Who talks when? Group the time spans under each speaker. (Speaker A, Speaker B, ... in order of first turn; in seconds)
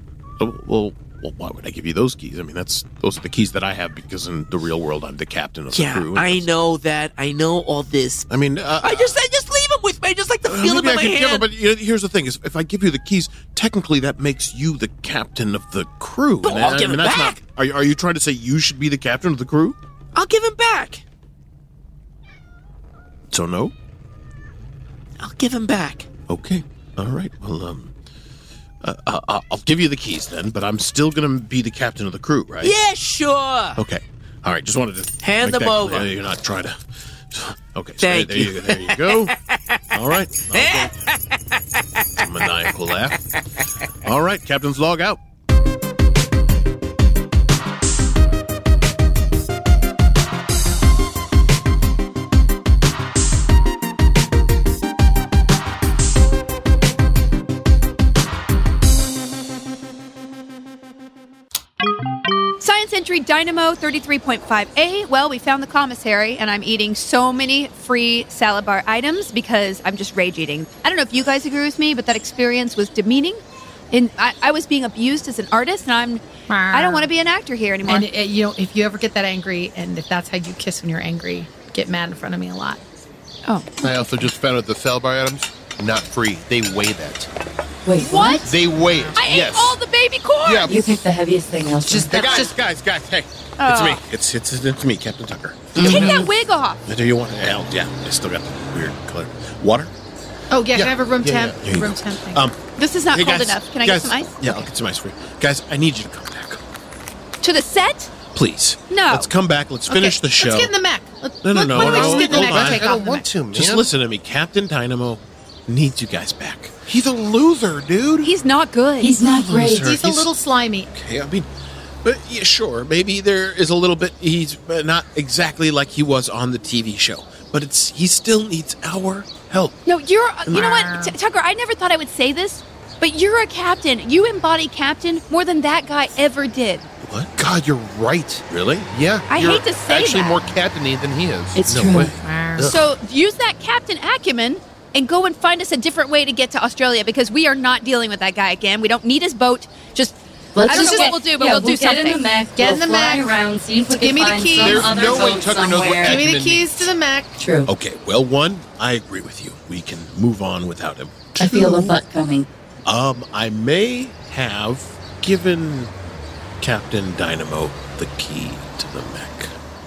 Speaker A: 0.4-6.5, 8.3-9.1, 10.5-19.8, 23.3-23.7, 26.3-27.9, 28.8-32.7, 33.8-36.8, 37.3-39.3, 39.9-40.9, 42.2-43.2, 44.0-45.2, 92.1-96.3, 96.8-99.9, 100.8-106.6, 108.2-110.7, 111.4-112.9, 113.5-116.7, 119.3-120.3, 120.9-121.5, 122.0-129.8, 137.0-137.3, 138.5-138.9, 141.7-142.7, 157.7-161.3, 162.8-165.9, 166.6-169.5
Speaker B: 5.7-8.3, 8.8-11.5, 16.4-17.4, 20.1-21.0, 25.2-26.1, 32.6-33.8, 35.2-36.1, 38.0-42.7
Speaker C: 62.6-78.1, 83.5-83.9, 88.0-88.5, 89.2-90.8, 93.6-94.0, 95.8-96.8, 102.8-104.6, 107.4-108.2, 108.9-109.3, 118.2-119.2, 129.8-136.9, 139.3-140.5, 142.6-152.2
Speaker D: 76.5-77.1, 77.8-82.8, 91.9-92.5, 100.5-102.4, 109.9-113.3, 119.8-120.9, 130.5-131.1, 142.2-142.7, 150.7-151.1, 152.6-153.3, 153.9-155.0, 156.0-157.4, 161.4-161.9
Speaker E: 83.8-87.3, 88.4-89.8, 90.4-90.7, 95.8-96.1, 111.7-113.9, 116.9-118.3, 137.4-142.7, 154.6-156.9
Speaker F: 87.8-88.4, 90.7-92.5, 119.0-119.9, 141.6-142.1, 150.5-156.2, 157.4-157.7, 161.4-162.5